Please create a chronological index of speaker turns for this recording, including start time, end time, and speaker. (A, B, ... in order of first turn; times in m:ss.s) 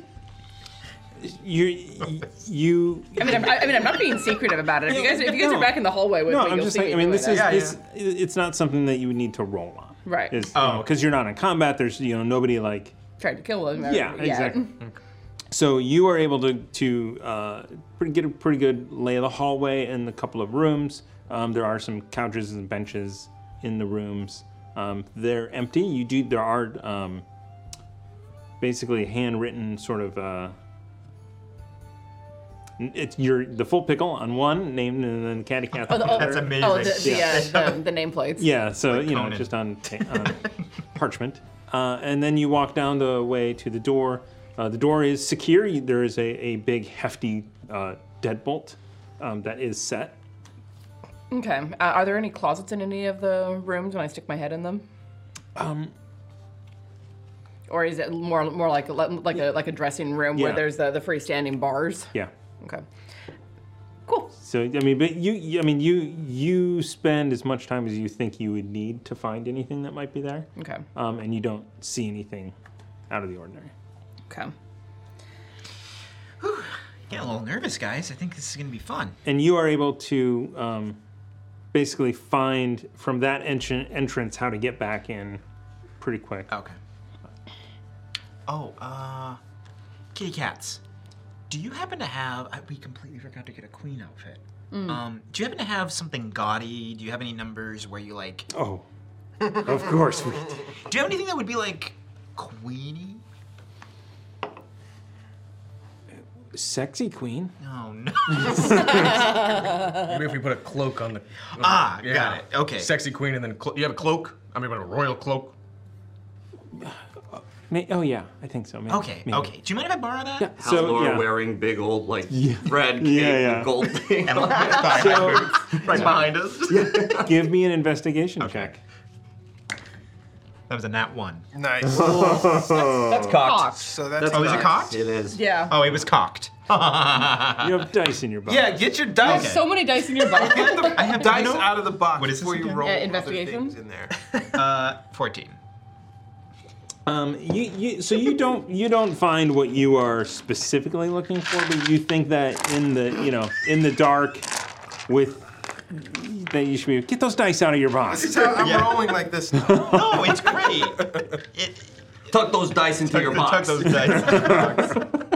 0:01.2-0:03.8 A
0:03.2-0:07.6 B
0:04.8-0:13.0 A
0:07.3-0:07.8 C
0:10.0-0:10.5 B
0:10.5-0:10.9 D
0:13.2-0:14.8 B
0:13.8-0:14.7 A
0:15.5-0:27.2 A
0:28.6-0:30.5 A
0:32.8-0:37.5 A
0:35.9-0:38.5 B
0:35.9-0:37.8 D
0:38.4-0:50.2 A
0:38.8-0:39.5 D
0:51.3-0:54.8 B
0:55.6-0:55.9 A
0:57.7-1:02.1 B
1:00.3-1:00.7 A
1:04.4-1:12.5 A
1:10.6-1:10.8 B
1:13.1-1:13.7 A
1:16.4-1:19.2 D
1:19.2-1:21.0 A
1:21.7-1:25.4 A
1:26.0-1:26.5 A
1:26.5-1:26.8 D
1:28.5-1:29.4 D
1:30.1-1:30.8 D
1:31.5-1:38.5 D
1:34.7-1:35.0 B
1:38.5-1:38.8 A
1:39.5-1:40.7 A
1:40.8-1:43.2 D
1:46.5-1:47.5 A
1:47.6-1:49.7 D
1:48.3-1:49.1 A
1:48.8-1:50.1 B
1:49.9-1:55.5 C
1:51.6-1:52.9 D
1:56.7-1:59.5 A
1:58.9-2:00.6 D
2:00.4-2:01.3 A
2:00.6-2:07.4 E
2:02.3-2:03.9 A
2:04.2-2:06.9 D
2:04.8-2:06.1 A
2:06.8-2:08.8 A
2:08.4-2:08.7 D
2:10.7-2:11.4 D
2:11.5-2:12.6 F
2:11.9-2:13.3 A
2:11.9-2:15.4 E
2:13.0-2:14.0 B
2:13.7-2:14.8 F
2:14.2-2:15.1 D
2:15.3-2:15.8 B
2:15.7-2:17.8 D
2:17.6-2:18.9 A
2:18.4-2:24.2 F
2:19.2-2:21.3 B
2:19.2-2:19.7 D
2:20.3-2:22.9 D
2:22.7-2:23.8 B
2:24.5-2:25.6 D
2:27.0-2:34.5 A
2:35.1-2:38.5 A
2:38.1-2:40.8 F
2:38.4-2:41.9 D
2:39.6-2:40.0 A
2:42.3-2:44.6 E
2:43.0-2:45.0 D
2:44.1-2:44.7 A